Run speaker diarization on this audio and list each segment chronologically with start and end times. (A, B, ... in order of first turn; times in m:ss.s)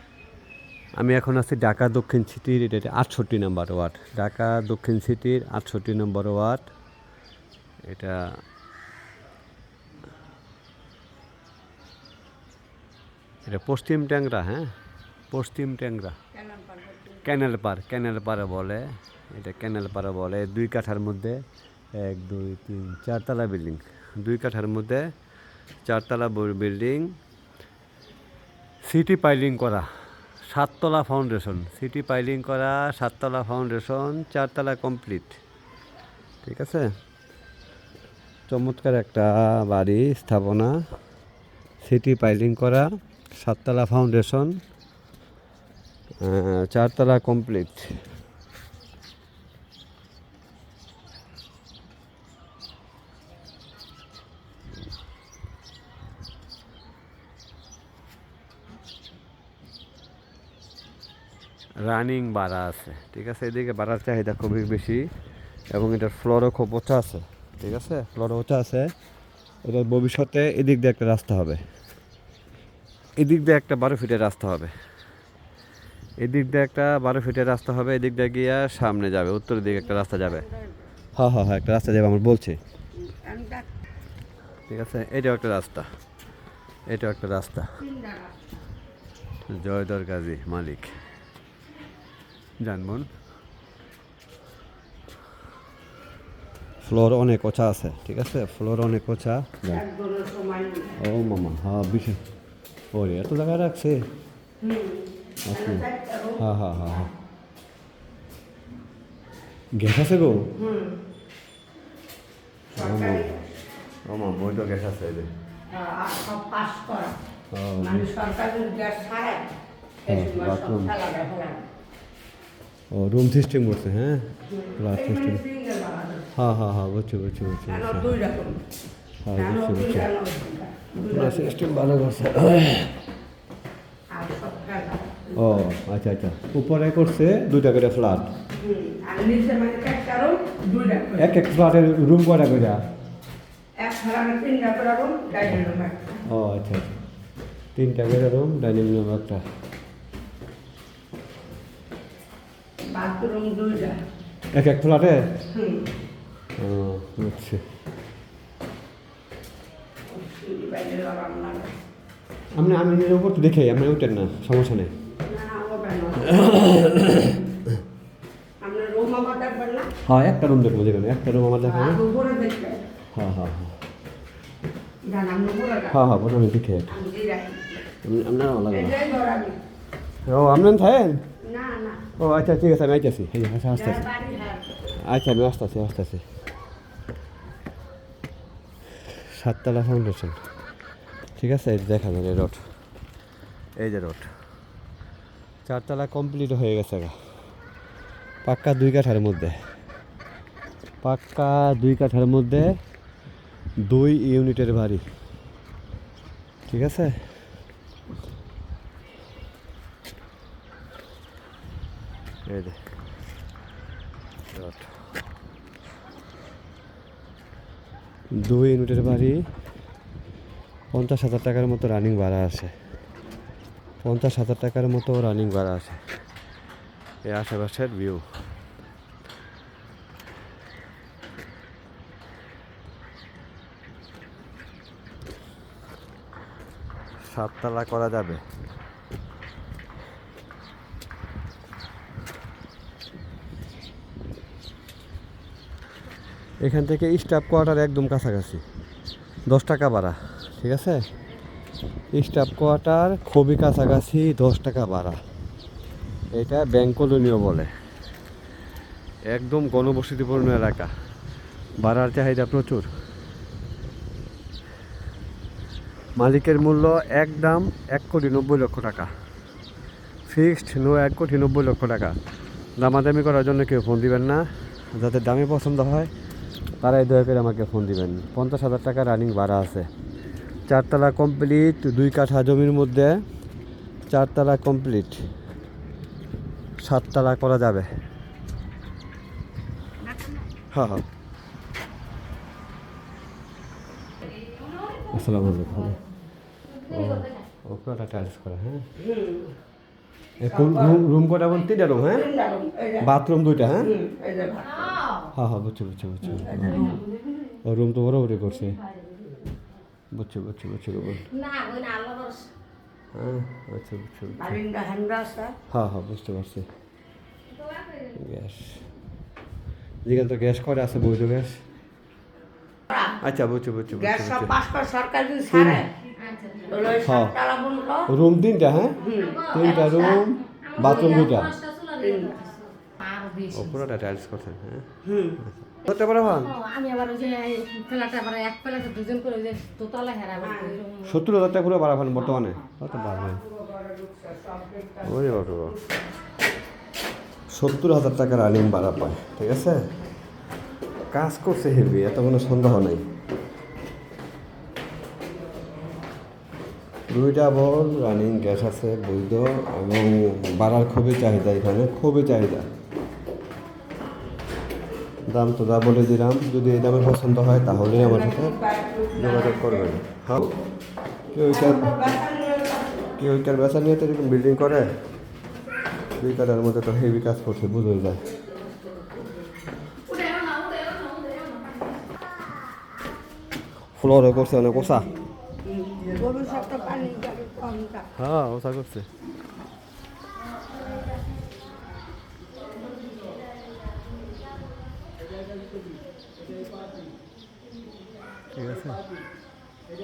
0:01.0-0:06.7 A
0:07.9-0:08.2 A
0:13.4-0:14.7 A
0:15.3-0:16.2 A
0:16.3-0:17.2 B
0:17.2-0:25.1 A
0:25.8-0:27.2 A
0:28.9-0:29.9 A
0:30.5-0:35.4 A
0:36.4-0:36.9 A
0:38.5-0:40.7 A
0:41.8-0:44.6 A
0:46.2-0:48.0 A
1:01.8-1:05.0 A
1:05.7-1:08.9 A
1:09.6-1:11.6 A
1:13.2-1:14.7 A
1:16.2-1:20.4 A
1:19.9-1:20.7 B
1:21.2-1:22.6 A
1:23.0-1:23.7 B
1:24.7-1:25.9 A
1:26.9-1:27.7 A
1:27.8-1:28.3 B
1:29.4-1:31.0 A
1:32.6-1:33.1 A
1:36.8-1:39.8 A
1:39.7-1:41.0 B
1:41.0-1:42.2 A
1:42.9-1:44.0 A
1:44.6-1:46.4 B
1:45.5-1:45.8 A
1:46.4-1:47.1 A
1:49.7-1:50.5 A
1:50.6-1:51.0 B
1:52.7-1:53.3 A
1:52.7-1:53.4 B
1:54.1-1:55.3 A
1:55.7-1:57.2 B
1:57.5-1:58.1 A
1:57.8-1:59.4 B
2:00.0-2:01.6 B
2:00.1-2:00.9 A
2:02.9-2:05.4 A
2:04.5-2:06.3 B
2:06.4-2:08.1 A
2:07.7-2:08.6 B
2:09.2-2:10.1 A
2:09.3-2:11.6 B
2:11.0-2:12.9 A
2:14.1-2:15.6 B
2:15.4-2:18.3 A
2:18.6-2:21.4 B
2:21.2-2:22.8 A
2:23.8-2:26.2 B
2:26.2-2:26.9 A
2:27.7-2:29.4 A
2:32.9-2:34.0 B
2:34.5-2:35.2 A
2:35.5-2:35.8 B
2:36.6-2:37.6 A
2:40.1-2:41.7 B
2:42.6-2:44.9 A
2:45.2-2:46.5 B
2:46.3-2:47.4 A
2:48.6-2:49.9 B
2:50.0-2:52.0 A
2:51.6-2:52.8 B
2:53.1-2:53.8 A
2:55.0-2:56.0 B
2:55.9-2:56.9 A
2:56.9-2:57.7 B
2:58.0-2:59.0 A
2:58.7-2:59.6 B
3:00.2-3:01.2 A
3:01.4-3:02.0 B
3:02.2-3:04.0 A
3:03.7-3:04.7 B
3:05.0-3:06.2 A
3:09.1-3:10.4 A
3:11.4-3:12.6 A
3:13.8-3:14.3 A
3:15.7-3:17.1 A
3:18.4-3:19.6 A
3:21.0-3:22.7 A
3:23.8-3:25.0 A
3:26.7-3:27.2 A
3:32.5-3:32.8 A
3:34.5-3:34.9 A
3:38.3-3:39.4 A
3:40.9-3:42.7 A
3:44.0-3:46.0 A
3:47.2-3:48.2 A
3:57.2-3:58.4 A
4:06.6-4:08.6 A
4:09.5-4:11.0 A
4:12.2-4:15.2 A
4:16.3-4:17.7 A
4:19.3-4:20.9 A
4:21.8-4:22.9 A
4:26.2-4:29.1 A
4:30.3-4:32.2 A
4:32.8-4:36.1 A
4:36.8-4:39.9 A
4:40.7-4:43.2 A
4:44.1-4:45.2 A
4:46.8-4:47.9 A
4:50.7-4:51.0 A
4:54.5-4:55.0 C
4:55.1-4:56.0 A
4:56.7-4:57.4 C
4:56.9-4:58.9 A
4:59.0-4:59.5 B
5:00.4-5:02.3 A
5:00.4-5:01.0 B
5:02.0-5:03.1 B
5:03.0-5:03.9 A
5:03.8-5:05.0 B
5:04.8-5:05.3 C
5:05.3-5:07.0 A
5:06.2-5:07.0 B
5:07.6-5:08.8 A
5:10.1-5:11.3 A
5:11.3-5:12.5 C
5:13.1-5:14.6 A
5:14.4-5:15.6 B
5:15.7-5:16.7 A
5:17.5-5:18.1 C
5:18.1-5:18.8 A
5:20.0-5:21.6 A
5:22.9-5:23.2 B
5:23.2-5:24.6 A
5:23.9-5:25.9 B
5:25.5-5:25.8 A
5:26.2-5:26.8 C
5:26.7-5:28.1 B
5:27.0-5:27.4 A
5:28.1-5:31.6 A
5:29.0-5:29.5 B
5:29.1-5:33.8 C
5:32.0-5:32.4 B
5:33.5-5:36.6 A
5:35.0-5:35.4 B
5:36.3-5:41.1 C
5:40.4-5:40.8 B
5:41.0-5:43.4 A
5:42.9-5:45.8 B
5:45.0-5:45.8 A
5:47.5-5:49.8 A
5:51.1-5:53.0 A
5:57.1-6:02.7 A
6:05.3-6:08.6 A
6:07.9-6:09.9 B
6:09.2-6:10.6 A
6:11.3-6:12.0 A
6:11.5-6:13.2 B
6:13.2-6:14.9 A
6:16.2-6:18.2 A
6:20.2-6:21.4 C
6:24.0-6:25.1 A
6:25.7-6:28.1 B
6:28.1-6:29.1 A
6:38.5-6:39.0 A